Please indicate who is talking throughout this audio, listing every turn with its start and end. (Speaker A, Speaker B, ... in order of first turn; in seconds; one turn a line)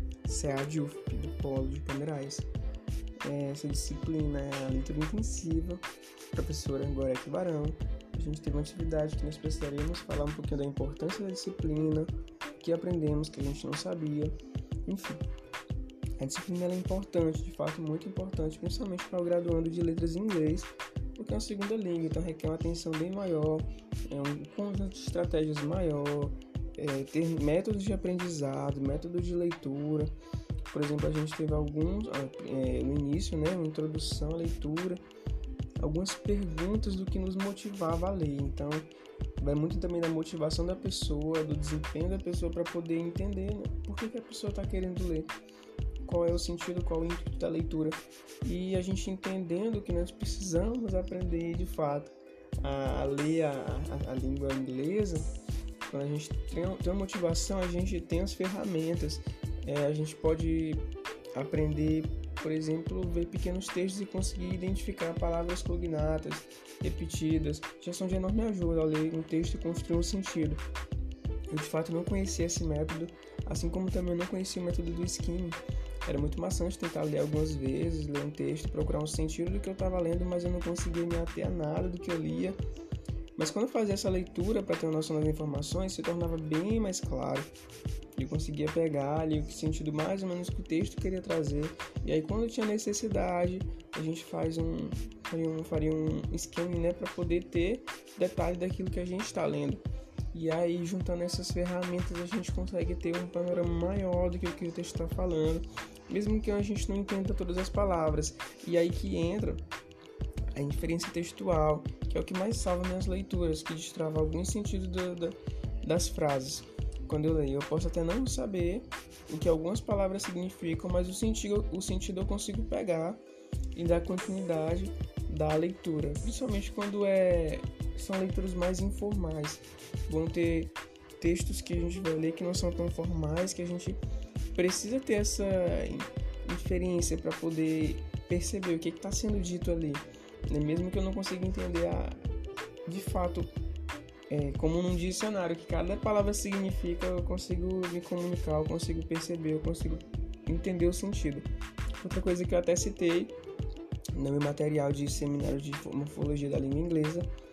Speaker A: 0.2-2.5
Speaker A: 3.2-14.3
Speaker A: 14.9-15.2
Speaker A: 16.2-30.1
Speaker A: 30.7-35.0
Speaker A: 35.8-38.9
Speaker A: 39.4-45.3
Speaker A: 46.0-55.3
Speaker A: 55.9-70.6
Speaker A: 71.5-82.6
Speaker A: 83.4-87.5
Speaker A: 88.2-109.6
Speaker A: 110.5-123.2
Speaker A: 123.8-134.0
Speaker A: 134.6-142.3
Speaker A: 142.9-143.5
Speaker A: 144.3-151.5
Speaker A: 152.0-153.3
Speaker A: 154.1-157.3